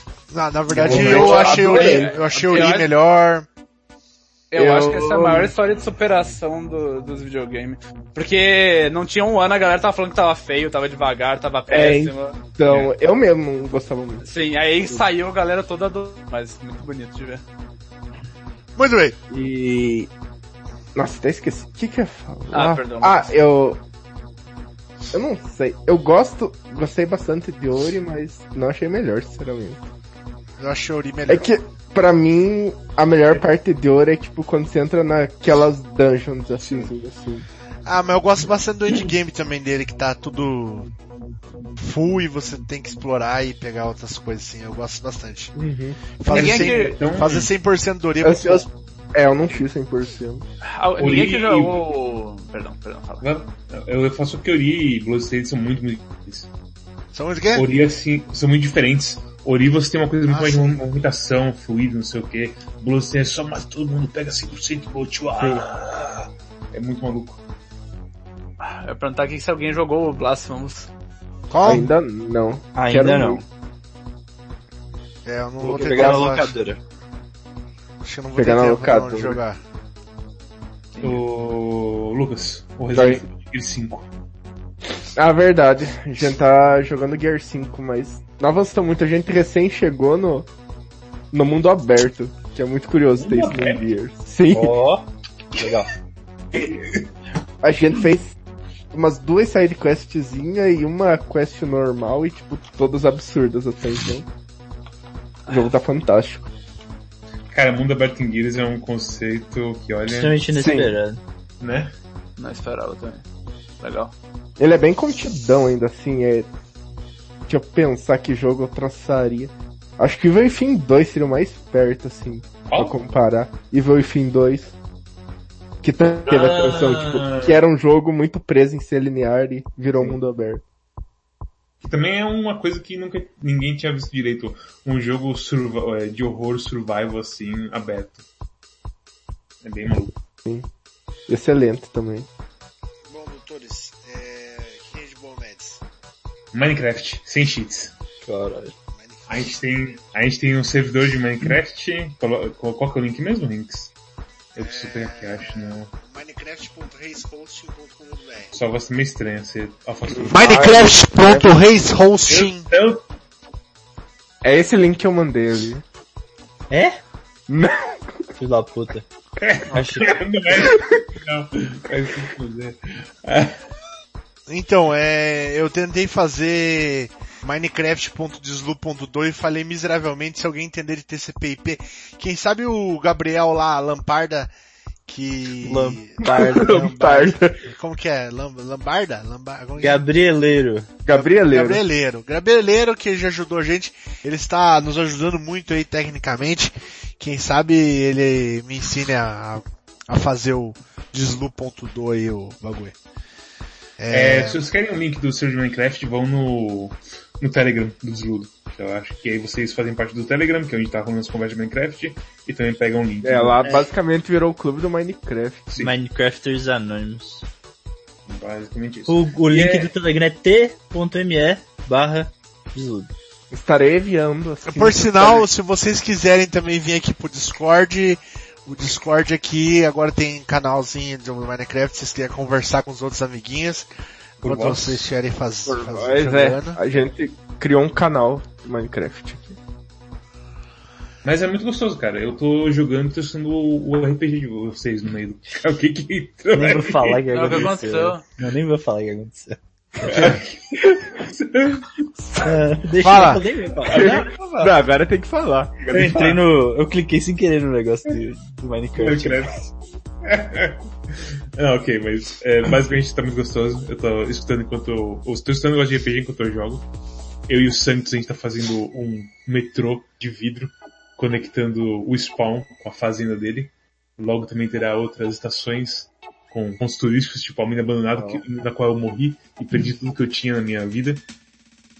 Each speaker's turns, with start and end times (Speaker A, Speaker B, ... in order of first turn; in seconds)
Speaker A: 0.3-3.5, 18.8-19.1, 30.6-31.5, 37.9-40.9, 41.8-45.5, 46.1-48.6, 57.1-57.6, 60.2-60.8, 71.5-71.9, 75.2-76.5, 78.0-79.6, 143.1-145.8, 148.9-149.5, 154.6-158.5, 160.3-162.7, 174.5-184.5, 185.1-190.0, 191.1-202.9, 204.0-204.6, 224.7-233.9, 234.4-236.8, 253.0-253.4
Speaker B: 0.7-2.0, 46.3-47.5, 51.0-51.8, 53.2-56.5, 57.5-67.4, 81.0-84.0, 93.2-93.9, 96.5-97.0, 107.5-110.4, 111.6-111.9, 122.7-123.0, 126.2-127.6, 131.8-138.2, 139.6-140.2, 146.5-147.9, 149.3-153.9, 154.5-155.9, 158.5-160.8, 162.3-163.0, 169.4-173.6, 204.1-213.7, 218.3-219.9, 234.4-235.1, 241.2-247.7, 250.0-252.0, 253.9-254.5, 255.8-256.4, 258.9-259.7, 260.2-266.9, 267.5-281.2
Speaker C: 0.8-2.1, 4.5-5.5, 11.7-14.3, 19.3-20.1, 20.9-23.8, 25.1-29.9, 31.3-37.5, 45.5-46.0, 48.2-50.4, 65.3-65.7, 71.6-73.4, 75.6-76.3, 78.3-79.4, 82.9-83.2, 85.2-90.5, 91.3-94.8, 97.6-98.3, 98.9-104.3, 105.5-106.5, 110.5-110.9, 114.6-116.5, 117.5-124.7, 125.8-130.6, 141.3-142.3, 160.1-161.5, 164.4-165.8, 167.5-168.1, 186.2-187.6, 191.0-191.8, 213.2-215.7, 223.5-225.4, 235.7-239.6, 253.9-255.9
Speaker D: 0.9-2.9, 4.5-12.4, 14.2-17.4, 22.5-23.4, 46.3-47.0, 50.6-53.2, 68.6-70.9, 80.9-81.2, 112.4-113.2, 113.8-114.1, 247.3-248.2
Speaker E: 72.8-73.4, 75.6-76.8, 94.5-95.9, 110.1-111.2, 148.2-148.7, 166.7-167.0, 168.4-169.1, 169.7-170.2, 185.6-186.9, 189.8-190.9, 215.8-217.4, 219.1-223.1, 246.5-250.3, 252.4-254.7, 255.9-259.5, 278.2-278.4